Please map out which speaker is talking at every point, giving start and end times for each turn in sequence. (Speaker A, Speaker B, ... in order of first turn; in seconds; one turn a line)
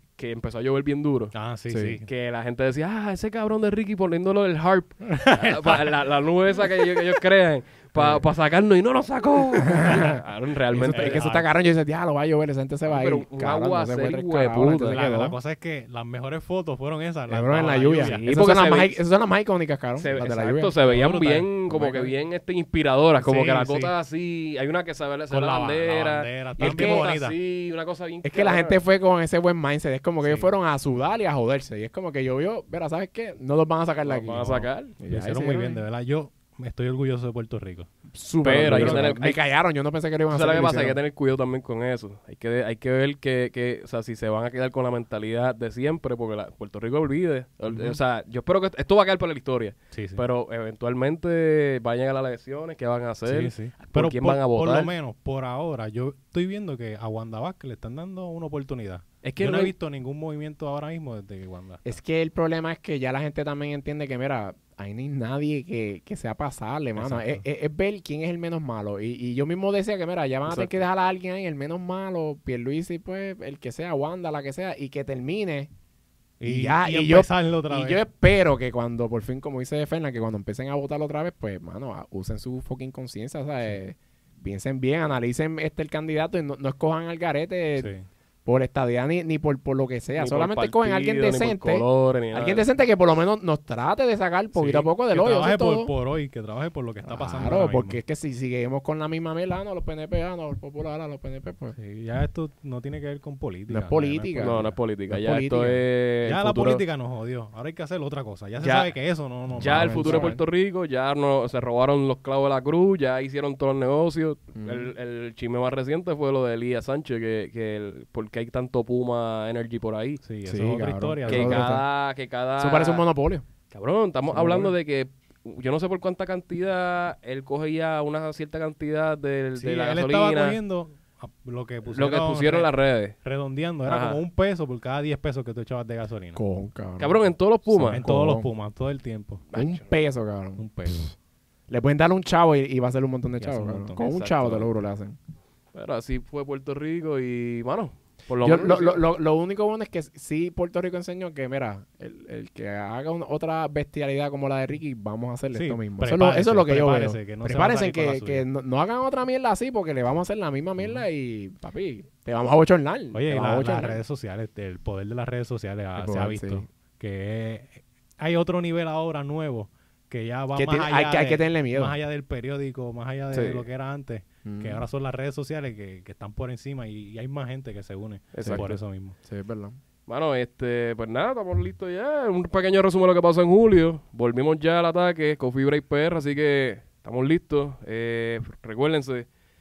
Speaker A: 0.2-1.4
Speaker B: 1.3-2.1
Speaker C: 1.7-2.0
Speaker A: 2.1-11.4
Speaker B: 5.1-6.0
Speaker B: 6.7-7.2
Speaker C: 8.0-8.2
Speaker C: 9.6-15.3
Speaker B: 10.9-11.4
Speaker A: 12.9-15.0
Speaker B: 14.9-18.3
Speaker C: 17.3-20.7
Speaker A: 18.0-19.0
Speaker A: 20.0-28.8
Speaker B: 20.8-22.1
Speaker B: 23.2-23.9
Speaker B: 25.3-27.4
Speaker C: 26.6-27.1
Speaker C: 28.2-35.8
Speaker B: 30.2-30.5
Speaker A: 34.1-35.0
Speaker B: 35.1-37.9
Speaker C: 38.1-41.0
Speaker A: 38.4-39.4
Speaker B: 38.7-39.2
Speaker A: 40.3-54.9
Speaker B: 47.7-48.0
Speaker B: 49.9-50.2
Speaker B: 53.3-62.0
Speaker A: 59.2-59.7
Speaker C: 61.8-75.7
Speaker B: 67.0-67.4
Speaker A: 70.5-70.9
Speaker B: 76.4-78.0
Speaker C: 76.4-87.9
Speaker B: 87.8-88.0
Speaker C: 88.5-95.9
Speaker A: 90.2-92.7
Speaker B: 94.5-98.0
Speaker C: 97.0-101.8
Speaker B: 101.8-104.8
Speaker C: 103.7-105.8
Speaker A: 104.4-106.8
Speaker B: 106.2-110.4
Speaker A: 108.6-108.9
Speaker A: 109.6-120.2
Speaker C: 109.6-110.4
Speaker C: 114.5-114.9
Speaker B: 120.2-121.7
Speaker C: 120.5-121.8
Speaker A: 121.3-123.0
Speaker C: 122.6-123.4
Speaker A: 123.7-130.6
Speaker B: 124.3-124.7
Speaker C: 124.4-124.7
Speaker B: 129.6-132.7
Speaker A: 131.9-133.2
Speaker B: 133.2-136.4
Speaker A: 133.9-134.2
Speaker C: 136.3-137.2
Speaker A: 137.0-138.0
Speaker B: 137.7-139.4
Speaker C: 138.0-138.5
Speaker A: 139.5-139.8
Speaker C: 139.5-141.1
Speaker B: 140.6-141.1
Speaker C: 141.7-145.2
Speaker B: 143.4-144.0
Speaker A: 144.0-144.7
Speaker A: 145.7-149.0
Speaker C: 148.4-164.0
Speaker B: 155.5-158.5
Speaker B: 160.8-161.0
Speaker B: 163.1-179.2
Speaker C: 166.0-166.7
Speaker C: 170.5-171.9
Speaker A: 173.3-173.6
Speaker C: 174.4-174.8
Speaker A: 178.3-178.8
Speaker C: 179.2-179.8
Speaker A: 180.1-189.3